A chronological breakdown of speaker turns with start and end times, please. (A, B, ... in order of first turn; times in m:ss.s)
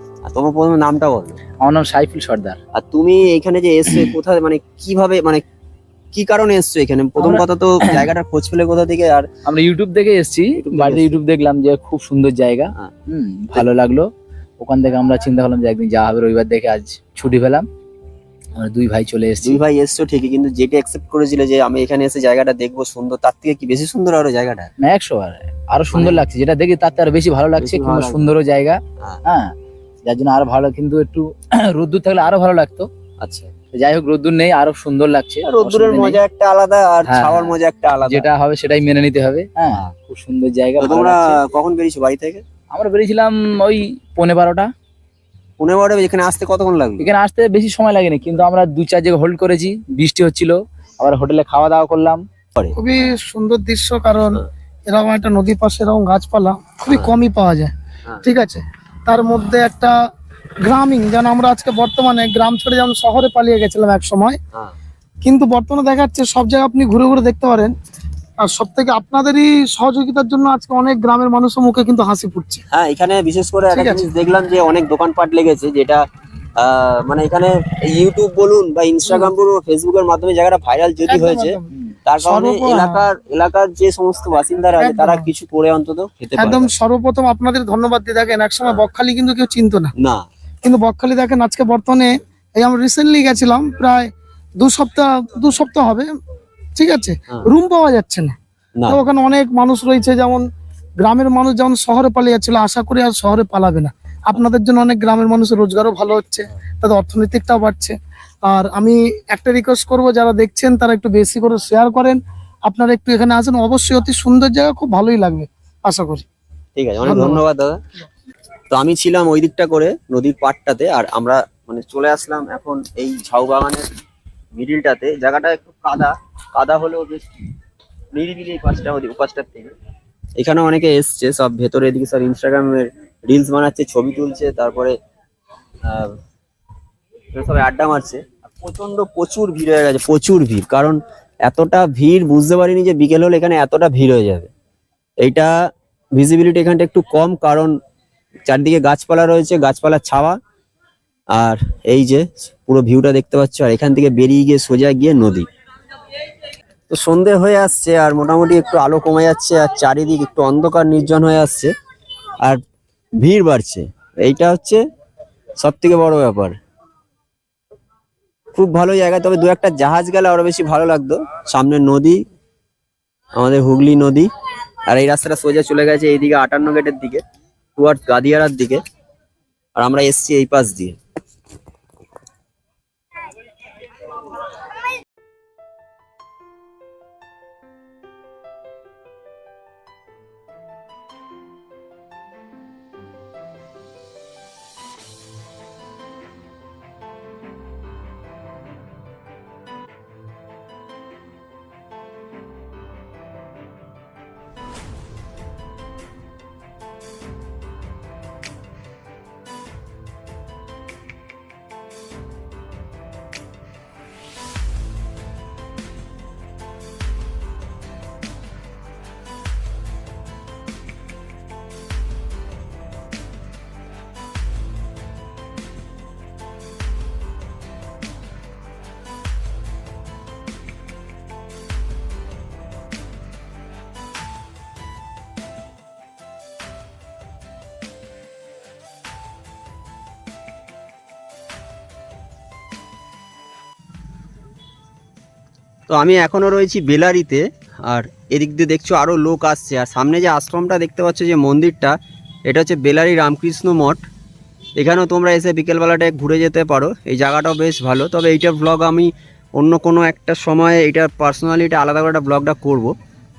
0:00.3-0:01.4 A
0:01.6-0:02.6 B
0:02.7-0:05.4 A
0:06.1-0:09.3 A
0:07.2-0:08.1 B
0:09.4-0:14.1 B
0:10.6-0:11.2 A
0:14.6-0:17.7 B
0:18.6-0:19.6 B
0:19.4-0:24.7 A
0:24.8-0:29.5 B
0:25.9-0:26.2 A
0:27.6-0:28.3 A
0:30.0-0:32.9 B
0:33.2-0:33.5 A
0:33.7-0:36.2 B
0:35.4-0:38.3 A
0:37.0-0:41.4 B
0:40.8-0:42.4 A
0:42.7-0:44.7 B
0:45.6-0:47.1 A
0:47.0-0:52.2 B
0:52.8-0:59.9 C
0:56.9-0:57.2 A
1:00.6-1:04.4 C
1:05.2-1:07.7 C
1:08.4-1:12.6 C
1:12.7-1:16.0 A
1:13.7-1:14.1 C
1:16.6-1:26.7 A
1:21.1-1:21.7 C
1:22.2-1:23.1 C
1:24.8-1:25.3 C
1:26.4-1:29.9 C
1:30.0-1:30.3 A
1:30.6-1:34.1 C
1:34.6-1:36.1 C
1:36.8-1:38.4 C
1:38.9-1:40.4 C
1:41.0-1:56.3 C
1:56.8-1:57.8 A
1:57.0-1:57.4 C
1:58.7-2:04.0 A
2:04.6-2:07.3 A
2:08.1-2:09.7 A
2:10.4-2:15.0 A
2:15.8-2:16.2 A
2:17.3-2:24.5 A
2:25.2-2:25.5 A
2:26.2-2:27.8 A
2:28.5-2:30.4 A
2:31.3-2:35.5 A
2:36.9-2:41.7 A
2:43.2-2:44.8 A
2:45.6-2:46.6 A
2:48.6-2:52.2 A
2:53.4-2:54.3 A
2:54.9-2:57.2 A
2:57.8-2:58.8 A
2:59.8-3:01.0 A
4:05.9-4:12.0 A
4:12.5-4:14.0 A
4:14.8-4:22.9 A